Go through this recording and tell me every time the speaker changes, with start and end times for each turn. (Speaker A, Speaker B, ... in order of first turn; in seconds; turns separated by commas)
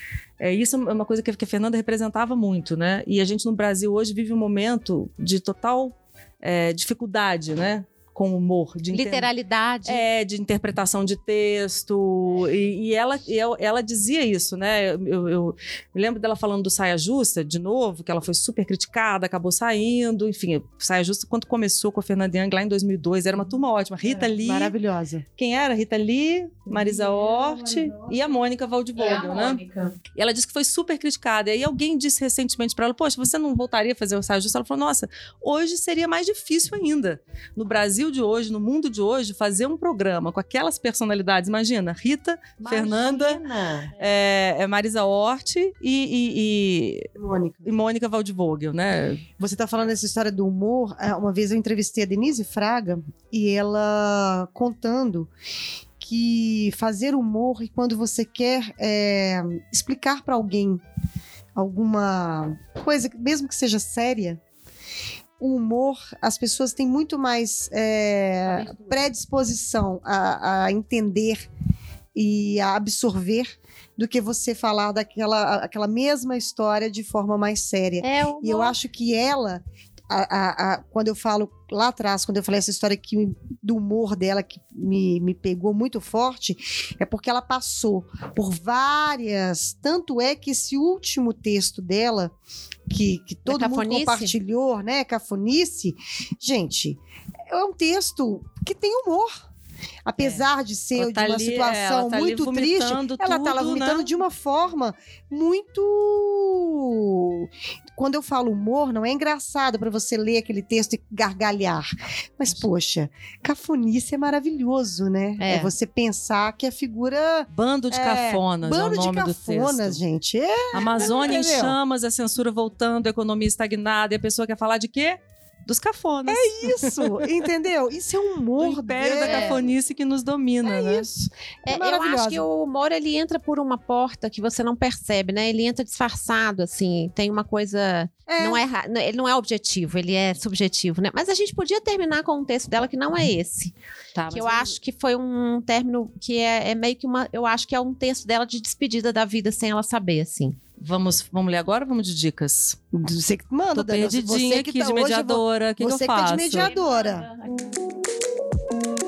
Speaker A: 0.4-9.3, Speaker B: 8.9-10.0, Speaker A: 9.8-24.7, Speaker C: 24.4-25.2, Speaker A: 25.4-29.6, Speaker D: 26.9-28.0, Speaker D: 29.0-29.9, Speaker A: 30.1-43.4, Speaker D: 42.6-44.0, Speaker A: 44.0-47.1, Speaker C: 47.1-47.7, Speaker A: 47.6-49.3, Speaker C: 49.4-55.3, Speaker C: 56.0-60.8, Speaker C: 61.5-64.4, Speaker C: 65.4-71.5, Speaker C: 72.1-92.3, Speaker B: 78.0-78.8, Speaker C: 92.9-97.0, Speaker B: 93.5-94.3, Speaker C: 97.5-99.3, Speaker C: 100.0-111.8, Speaker A: 100.9-104.1, Speaker C: 112.4-121.7, Speaker B: 115.4-115.7, Speaker A: 117.5-120.0, Speaker A: 120.7-127.2, Speaker C: 126.3-129.6, Speaker A: 128.6-131.1, Speaker B: 129.2-129.6, Speaker C: 130.6-132.4, Speaker B: 131.7-143.7, Speaker C: 138.3-138.6, Speaker A: 144.1-144.8, Speaker B: 144.3-150.6, Speaker A: 150.8-152.8, Speaker C: 152.9-157.3, Speaker A: 153.7-156.7, Speaker D: 156.4-157.4